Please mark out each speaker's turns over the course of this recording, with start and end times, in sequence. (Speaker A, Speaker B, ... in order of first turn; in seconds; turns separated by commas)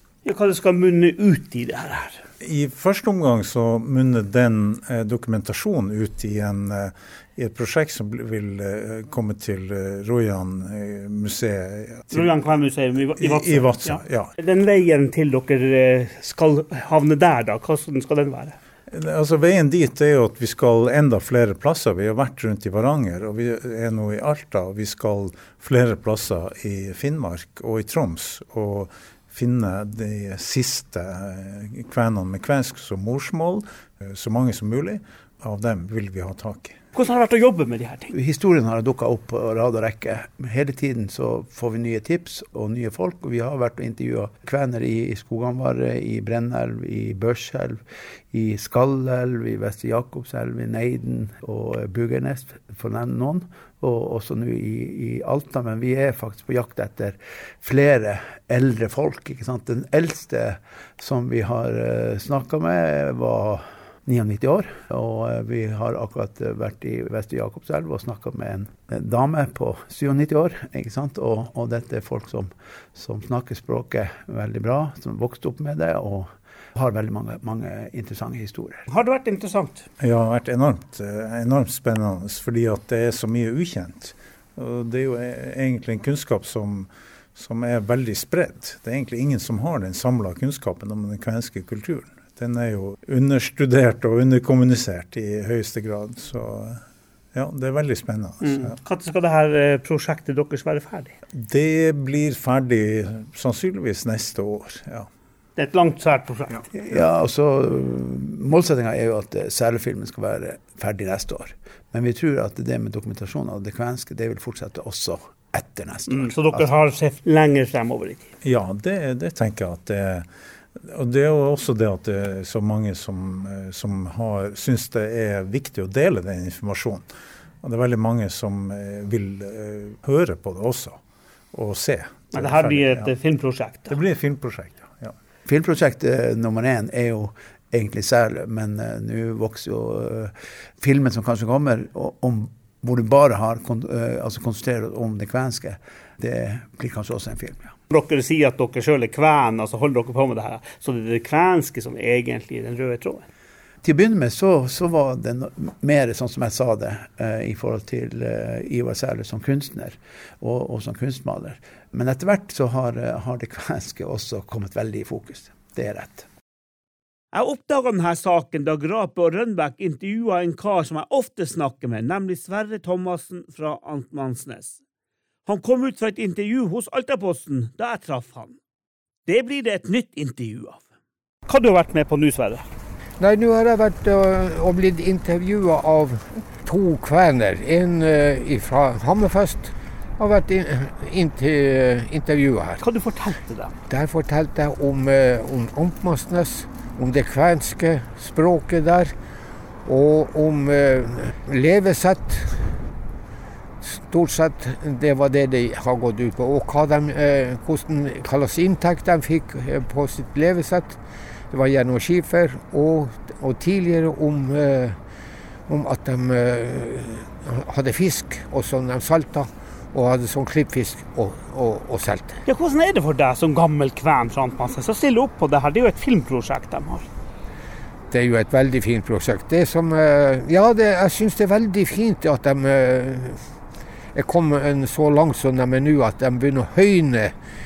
Speaker A: 0.2-2.2, Speaker B: 2.4-12.3, Speaker A: 12.1-18.6, Speaker B: 13.2-14.3, Speaker B: 18.9-36.8, Speaker A: 36.9-38.1, Speaker C: 38.1-78.8, Speaker A: 78.9-79.8, Speaker B: 80.0-96.8, Speaker B: 97.3-98.8, Speaker A: 98.4-101.1, Speaker B: 101.4-105.1, Speaker A: 105.6-106.6, Speaker C: 106.7-116.7, Speaker A: 116.1-118.3, Speaker B: 118.4-120.3, Speaker B: 120.8-127.0, Speaker B: 127.6-131.0, Speaker B: 131.5-133.1, Speaker A: 132.3-133.9, Speaker B: 133.9-135.1, Speaker C: 135.4-147.7, Speaker A: 147.9-153.2, Speaker C: 153.8-166.3, Speaker A: 167.3-174.8, Speaker A: 175.4-178.6, Speaker A: 179.3-180.8, Speaker A: 181.4-182.7, Speaker D: 183.2-192.8, Speaker A: 192.8-193.7, Speaker D: 193.9-199.2, Speaker D: 199.8-202.8, Speaker D: 203.8-215.0, Speaker D: 215.7-222.4, Speaker A: 222.4-227.1, Speaker D: 228.1-233.4, Speaker D: 234.1-237.3